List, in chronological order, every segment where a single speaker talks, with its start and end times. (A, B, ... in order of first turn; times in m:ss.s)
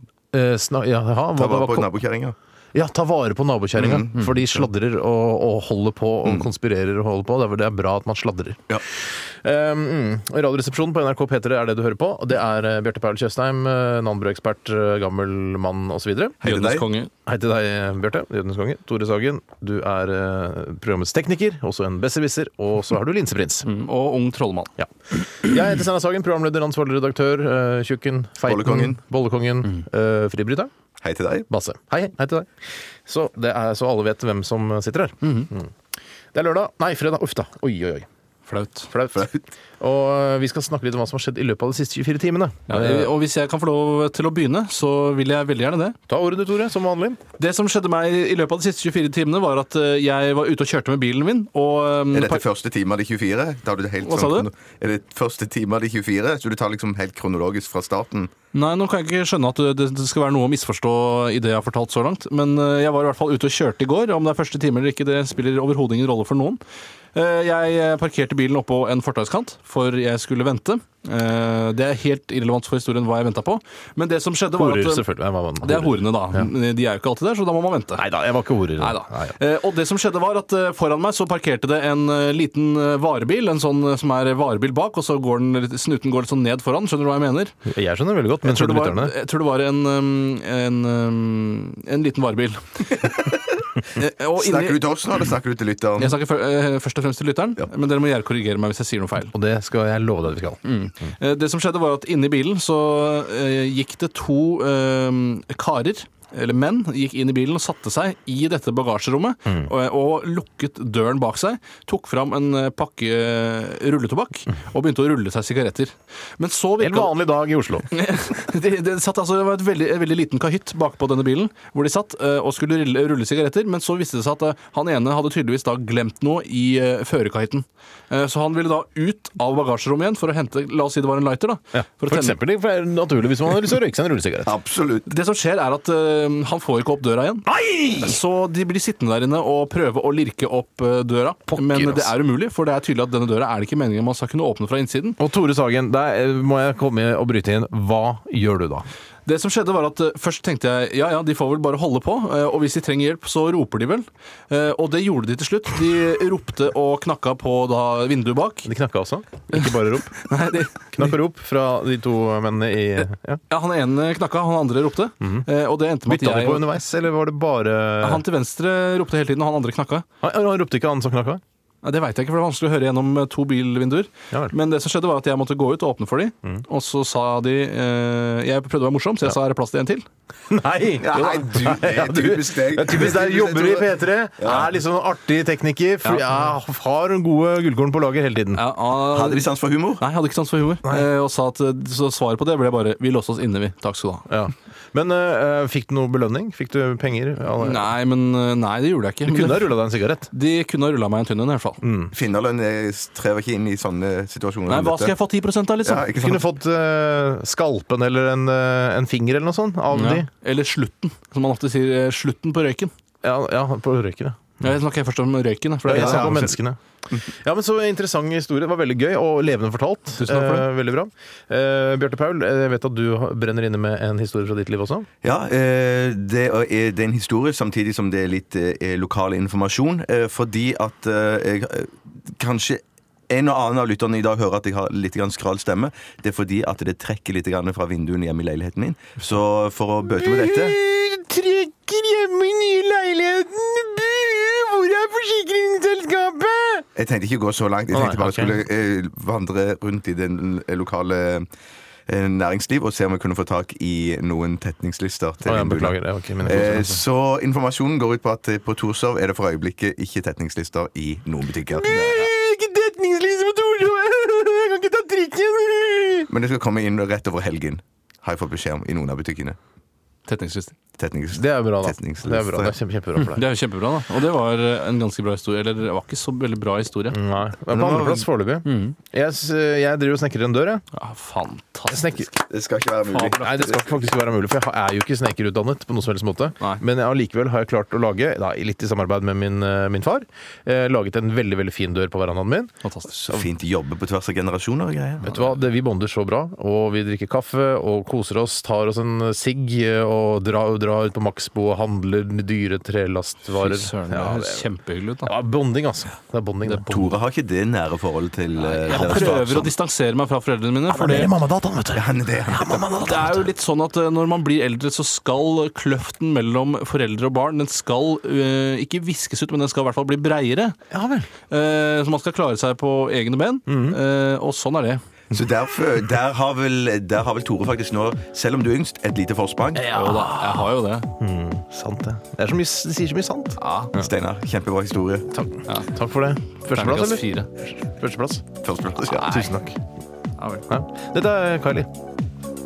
0:00.3-0:01.9 A
0:01.4-0:02.3 B
0:02.7-0:08.6 A
0:03.8-0:04.3 B
0:09.4-0:16.4 A
0:16.4-0:16.9 B
0:16.4-0:17.1 C
0:17.2-0:23.7 A
0:23.6-0:24.7 C
0:24.8-0:30.7 A
0:28.4-0:29.0 B
0:31.0-0:31.5 B
0:31.5-0:32.5 A
0:33.0-0:35.7 A
0:35.2-0:35.5 C
0:36.3-0:38.0 A
0:38.5-0:38.9 C
0:38.9-0:43.1 A
0:39.1-0:39.4 B
0:42.7-0:46.0 C
0:46.1-0:47.2 A
0:47.4-0:52.4 C
0:52.1-0:58.3 B
0:54.0-0:54.5 C
0:58.5-1:06.6 C
1:07.1-1:15.0 C
1:14.5-1:16.5 A
1:15.6-1:18.0 C
1:17.9-1:19.3 A
1:18.8-1:27.5 C
1:27.7-1:29.1 A
1:28.4-1:33.2 C
1:33.9-1:34.8 C
1:34.4-1:36.2 B
1:36.0-1:39.3 C
1:39.3-1:40.6 A
1:40.6-1:57.1 C
1:56.8-1:57.9 A
1:57.9-2:12.4 C
2:11.7-2:14.5 A
2:14.4-2:15.1 B
2:15.0-2:25.2 C
2:17.5-2:18.2 A
2:21.5-2:22.1 A
2:25.2-2:28.8 A
2:29.2-2:38.7 C
2:38.6-2:40.2 A
2:39.5-2:41.2 C
2:40.9-2:43.4 A
2:43.5-2:46.7 C
2:45.2-2:45.4 A
2:46.0-2:48.2 A
2:48.0-2:50.0 C
2:50.2-2:51.4 A
2:51.8-3:00.0 C
3:00.5-3:08.6 A
3:01.0-3:04.7 B
3:06.0-3:06.5 C
3:08.5-3:14.3 C
3:09.0-3:10.0 B
3:14.3-3:17.9 A
3:17.6-3:19.8 C
3:19.2-3:20.3 A
3:20.3-3:21.8 C
3:21.8-3:22.1 A
3:22.1-3:25.1 B
3:24.7-3:26.3 C
3:25.8-3:26.4 B
3:26.2-3:30.3 A
3:29.9-3:32.9 C
3:33.2-3:34.6 A
3:34.6-3:36.4 C
3:35.8-3:36.5 B
3:35.9-3:45.1 A
3:40.2-3:40.6 C
3:45.2-4:00.8 B
4:00.1-4:06.8 A
4:07.0-4:11.5 B
4:07.9-4:08.6 A
4:12.1-4:22.3 B
4:15.4-4:16.9 A
4:21.7-4:26.3 A
4:26.3-4:29.6 B
4:30.2-4:30.7 C
4:31.0-4:32.8 B
4:31.3-4:33.4 A
4:33.2-4:37.2 C
4:37.1-4:40.8 A
4:37.7-4:38.3 B
4:38.6-4:39.0 C
4:40.9-4:42.2 C
4:41.9-4:42.3 A
4:42.4-4:43.8 B
4:43.1-4:43.4 C
4:43.2-4:52.7 A
4:52.8-4:53.1 C
4:53.1-4:55.5 B
4:55.2-5:04.7 A
5:03.5-5:05.3 C
5:05.2-5:06.9 A
5:06.6-5:07.1 C
5:06.9-5:09.7 B
5:08.6-5:11.4 C
5:08.9-5:09.3 A
5:10.9-5:13.5 A
5:11.9-5:12.9 B
5:13.0-5:20.8 C
5:20.9-5:21.3 A
5:21.5-5:25.0 C
5:23.7-5:24.0 A
5:25.3-5:29.9 B
5:29.7-5:34.1 A
5:29.9-5:31.1 C
5:33.6-5:33.9 C
5:33.9-5:35.3 B
5:35.3-5:37.3 A
5:36.7-5:37.5 C
5:37.8-5:38.4 A
5:38.6-5:39.4 B
5:39.2-5:39.8 A
5:39.2-5:39.6 C
5:40.4-5:40.7 C
5:40.7-5:41.9 A